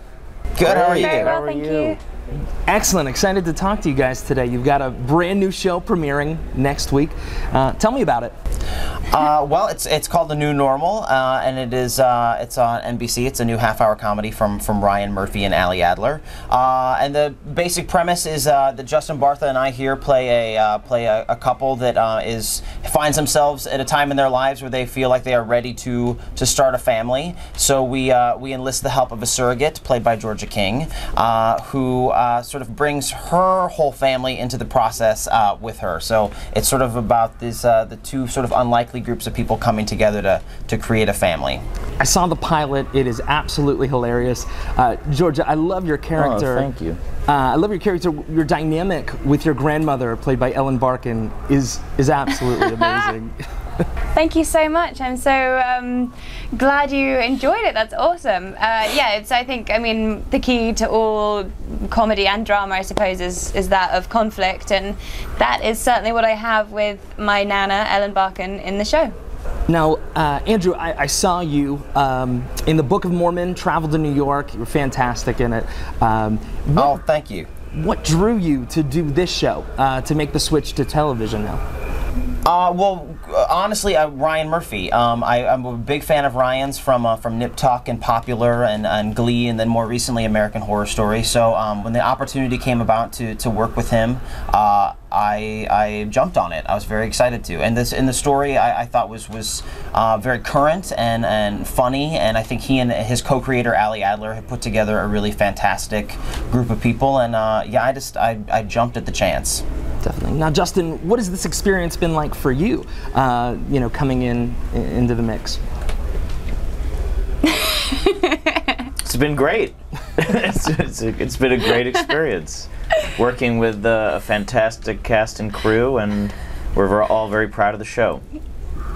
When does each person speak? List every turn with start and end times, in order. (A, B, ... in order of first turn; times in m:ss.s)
0:00.6-0:01.3 A
0:00.6-0:02.0 B
0:00.9-0:02.0 C
0:02.6-0:08.3 D
0:09.1-0:41.6 A
0:42.0-0:46.7 D
0:46.2-0:47.0 B
0:47.2-0:53.4 D
0:52.8-0:53.1 C
0:54.1-1:09.1 C
1:09.7-1:17.0 D
1:16.7-1:17.5 A
1:17.7-1:21.6 D
1:22.4-1:49.6 A
1:50.0-1:55.6 D
1:57.6-1:58.5 C
1:59.0-2:08.2 B